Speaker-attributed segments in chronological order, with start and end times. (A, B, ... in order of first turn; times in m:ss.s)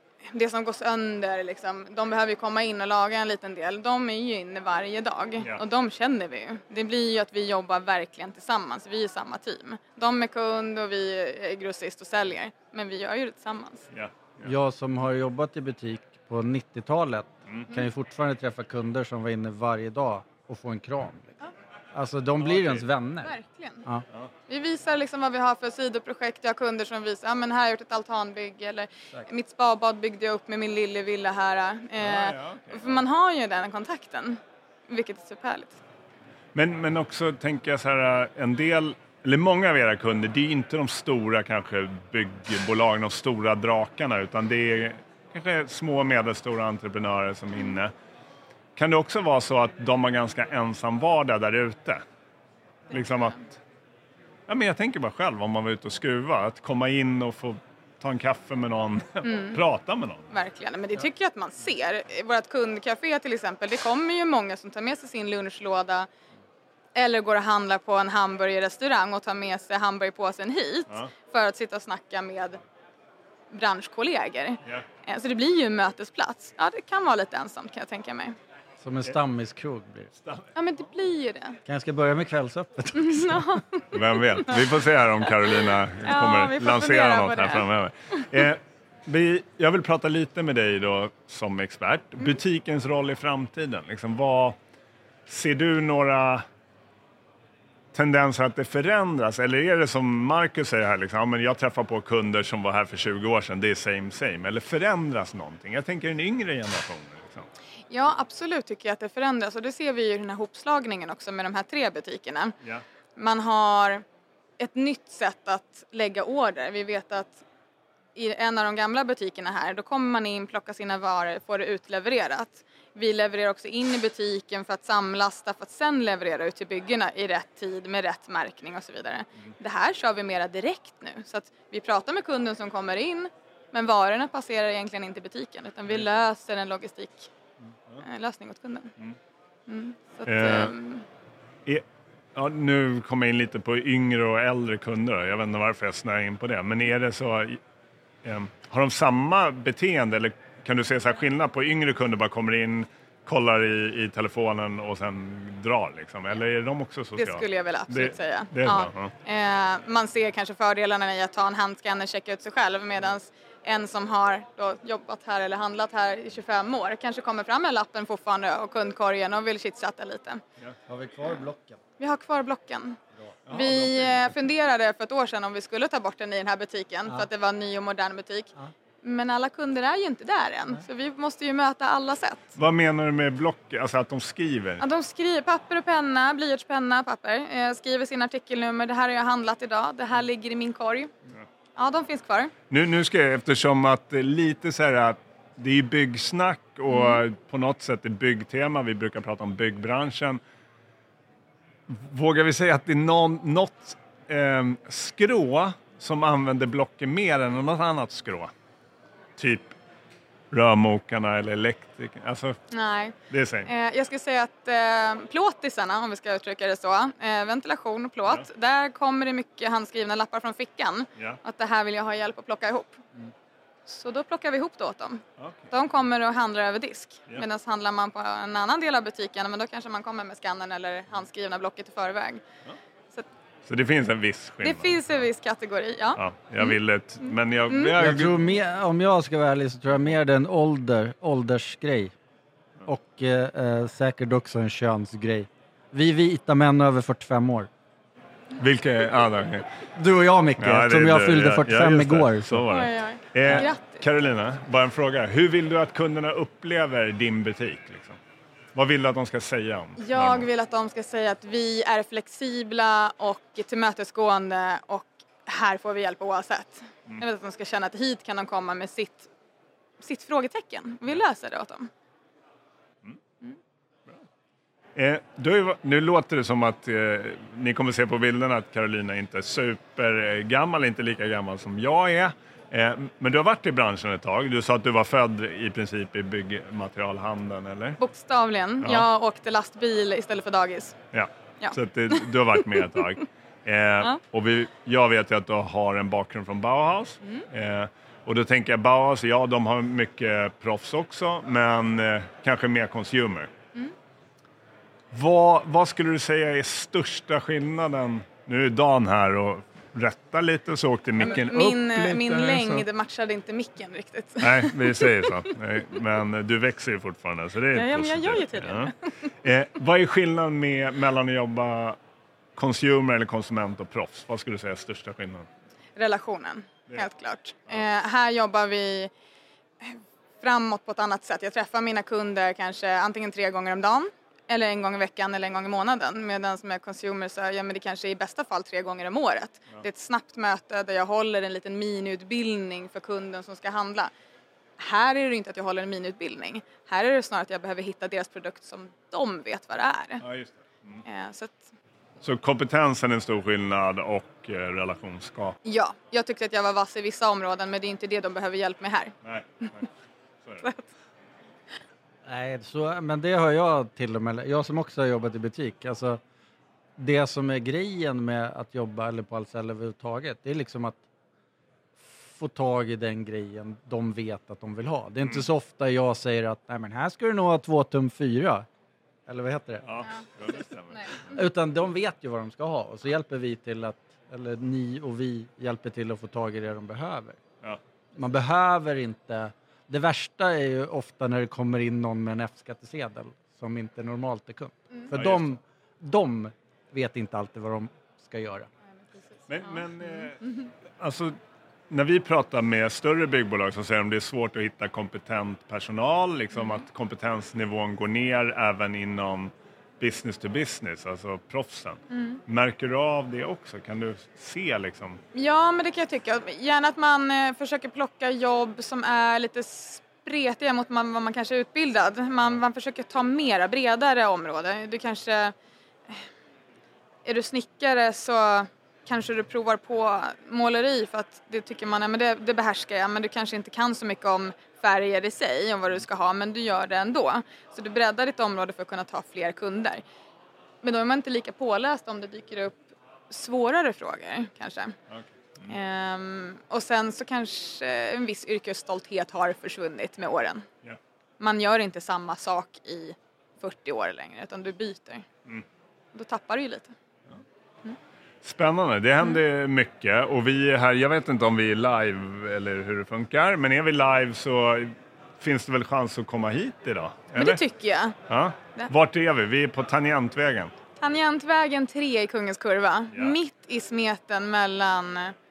0:00.3-0:13.8 A
0:13.9-0:14.5 B
0:14.4-0:21.4 C
0:21.9-0:23.3 C
0:22.4-0:22.8 B
0:23.2-0:23.8 A
0:24.5-0:35.8 A
0:32.0-0:33.0 B
0:36.5-0:47.9 B
0:48.8-0:52.0 B
0:52.9-0:53.6 B
0:52.9-0:53.3 A
0:54.5-1:00.3 B
0:59.2-0:59.6 A
1:00.3-1:06.1 A
1:06.9-1:12.6 A
1:13.5-1:18.4 A
1:18.8-1:20.1 C
1:20.2-1:20.5 B
1:20.5-1:21.6 A
1:21.6-1:23.6 C
1:22.9-1:24.6 A
1:23.9-1:34.6 B
1:25.7-1:27.6 A
1:35.3-1:36.4 B
1:37.9-1:47.5 B
1:47.9-1:52.5 A
1:53.2-1:54.0 A
1:54.6-1:57.4 A
1:58.1-2:17.3 A
2:18.0-2:18.9 A
2:19.7-2:21.0 A
2:20.2-2:20.7 B
2:21.6-2:27.6 B
2:28.2-2:39.1 B
2:37.2-2:50.4 A
2:50.9-2:51.8 C
2:52.0-2:53.0 A
2:53.5-2:54.3 B
2:53.5-3:02.5 A
3:02.6-3:04.8 B
3:04.8-3:11.1 A
3:11.8-3:12.5 A
3:12.7-3:20.4 B
3:16.9-3:17.2 A
3:21.9-3:28.5 B
3:29.4-3:29.7 B
3:30.5-3:32.6 B
3:32.7-3:43.0 A
3:33.3-3:33.7 B
3:43.8-3:52.4 A
3:45.4-3:45.6 B
3:53.6-3:55.2 B
3:54.6-3:56.7 A
3:56.2-3:58.4 B
3:57.7-3:58.0 A
3:58.0-4:02.1 C
4:02.8-4:07.7 C
4:08.6-4:09.6 B
4:09.9-4:12.6 C
4:10.6-4:18.2 B
4:12.7-4:14.0 A
4:18.7-4:20.5 B
4:20.0-4:29.3 A
4:30.0-4:31.9 A
4:35.0-4:48.0 B
4:48.0-4:51.0 A
4:48.8-4:49.1 B
4:51.1-5:03.5 B
4:51.6-4:53.0 A
5:05.1-5:12.8 B
5:11.2-5:15.4 A
5:14.4-5:22.0 B
5:17.7-5:18.9 A
5:22.6-5:25.5 B
5:26.0-5:29.1 A
5:29.8-5:44.1 A
5:44.8-5:50.2 A
5:50.2-5:51.0 B
5:51.0-5:51.7 A
5:52.2-5:55.6 B
5:55.6-5:59.1 A
5:59.2-5:59.9 B
6:00.6-6:00.9 A
6:02.2-6:06.2 C
6:07.0-6:11.0 C
6:12.0-6:18.6 C
6:19.3-6:20.0 C
6:19.8-6:21.2 B
6:21.2-6:27.4 C
6:28.1-6:38.7 C
6:35.1-6:35.5 B
6:39.0-6:40.3 A
6:39.5-6:41.4 B
6:41.9-6:55.2 B
6:46.5-6:46.8 A
6:52.1-6:52.4 A
6:55.3-7:05.5 A
7:07.2-7:20.0 A
7:20.8-7:24.9 A
7:25.1-7:25.7 B
7:25.7-7:30.6 A
7:31.4-7:35.2 A
7:36.1-7:36.9 A
7:38.4-7:47.6 B
7:47.3-7:48.2 A
7:48.3-7:50.7 B
7:51.0-7:55.3 A